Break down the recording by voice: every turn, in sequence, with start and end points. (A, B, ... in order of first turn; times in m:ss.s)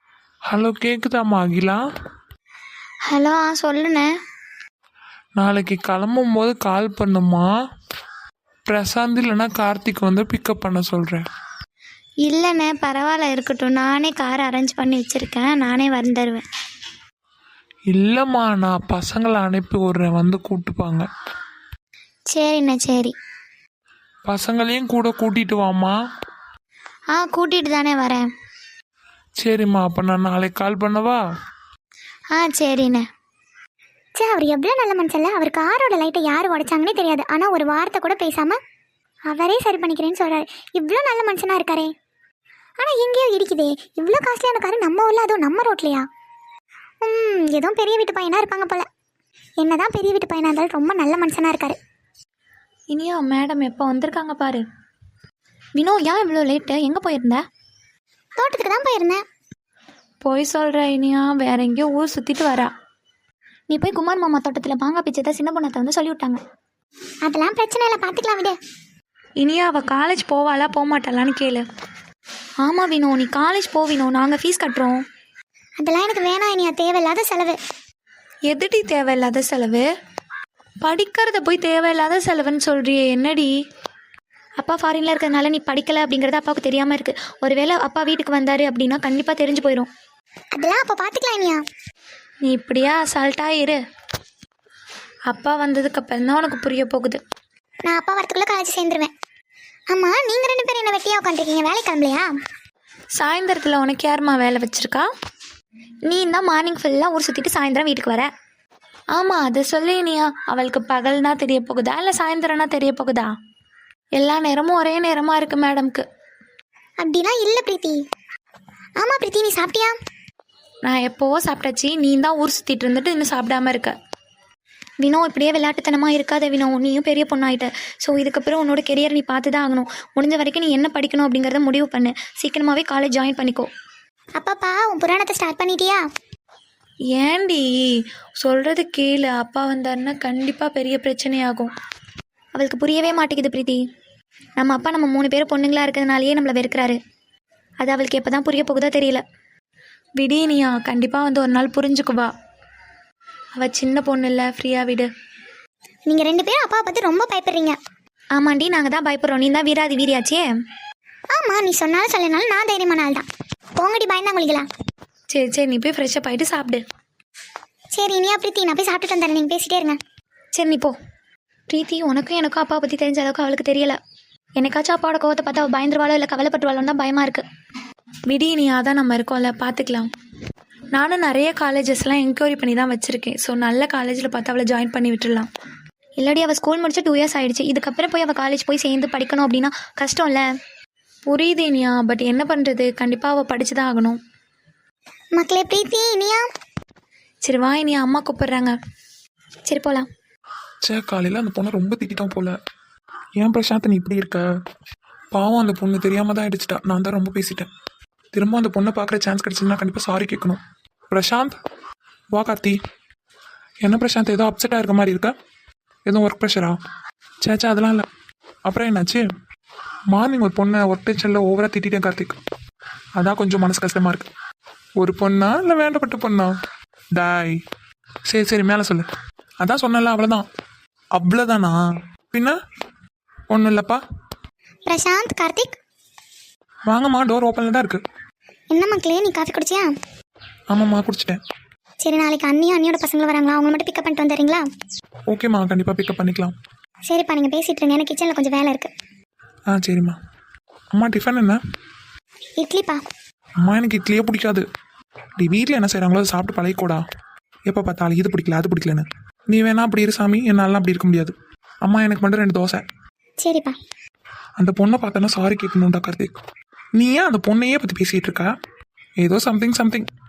0:00.5-0:01.8 A
0:03.0-0:04.1 B
0:05.4-0:07.5 A
0:08.7-0:11.2 A
0:12.2-0:16.4 B
0:17.9-0:21.1 A
0:22.3-0:23.1 B
0:24.2-0:26.0 A
0:27.1-0:28.2 B
0:29.4-0:31.2 A
0:32.3-0:33.0 B
0:34.2-0:38.6 C
0:39.3-0:41.9 C
0:42.8-0:46.0 C
0:47.0-0:48.8 C
0:49.6-0:51.8 C
0:52.9-0:54.6 B
0:55.8-0:57.4 B
0:58.4-0:59.2 C
1:00.2-1:02.7 B
1:03.7-1:06.4 B
1:07.2-1:08.6 C
1:09.4-1:11.6 B
1:12.6-1:15.0 B
1:15.8-1:17.6 C
1:18.5-1:19.9 B
1:20.8-1:23.5 B
1:24.6-1:29.9 B
1:30.5-1:31.6 C
1:32.4-1:33.8 B
1:35.3-1:37.2 B
1:37.8-1:39.1 C
1:39.9-1:42.3 C
1:43.2-1:45.1 B
1:46.1-1:48.3 B
1:49.1-1:53.3 B
1:54.2-1:56.0 B
1:57.0-1:58.0 C
1:59.0-1:59.9 C
2:00.9-2:03.9 B
2:05.0-2:13.7 B
2:14.4-2:16.0 C
2:17.3-2:17.6 B
2:18.4-2:21.7 B
2:22.5-2:23.8 B
2:24.6-2:27.0 B
2:27.8-2:29.2 B
2:30.2-2:32.3 B
2:33.6-2:35.1 B
2:36.1-2:37.8 C
2:38.3-2:40.5 B
2:41.3-2:43.2 C
2:43.8-2:44.7 C
2:45.3-2:46.8 B
2:47.9-2:50.0 C
2:50.5-2:51.0 B
2:51.7-2:54.0 B
2:54.6-2:57.4 B
2:58.3-3:00.1 B
3:00.9-3:05.5 B
3:06.2-3:10.4 B
3:11.2-3:14.2 B
3:15.3-3:16.4 C
3:17.4-3:18.7 B
3:19.7-3:20.1 B
3:20.8-3:22.5 A
3:23.4-3:24.4 A
3:25.3-3:27.7 A
3:28.3-3:30.6 A
3:31.1-3:31.6 A
3:32.3-3:32.8 A
3:33.8-3:35.3 A
3:36.0-3:36.8 A
3:37.4-3:38.1 A
3:38.7-3:39.2 A
3:40.1-3:42.4 A
3:43.2-3:44.3 A
3:45.0-3:46.5 A
3:47.2-3:47.6 A
3:48.3-3:49.1 A
3:49.6-3:50.4 A
3:51.1-3:51.8 A
3:52.3-3:52.6 A
3:53.5-3:54.0 A
3:54.8-3:55.8 C
3:56.9-3:58.0 A
3:58.7-3:59.9 C
4:00.7-4:01.4 A
4:02.0-4:04.6 C
4:05.3-4:06.5 A
4:07.1-4:08.9 C
4:09.7-4:10.2 A
4:10.9-4:11.6 A
4:12.6-4:13.0 C
4:13.6-4:14.6 A
4:15.4-4:17.0 A
4:17.7-4:22.8 A
4:23.4-4:23.8 C
4:24.6-4:26.3 A
4:27.0-4:28.5 A
4:29.2-4:30.1 A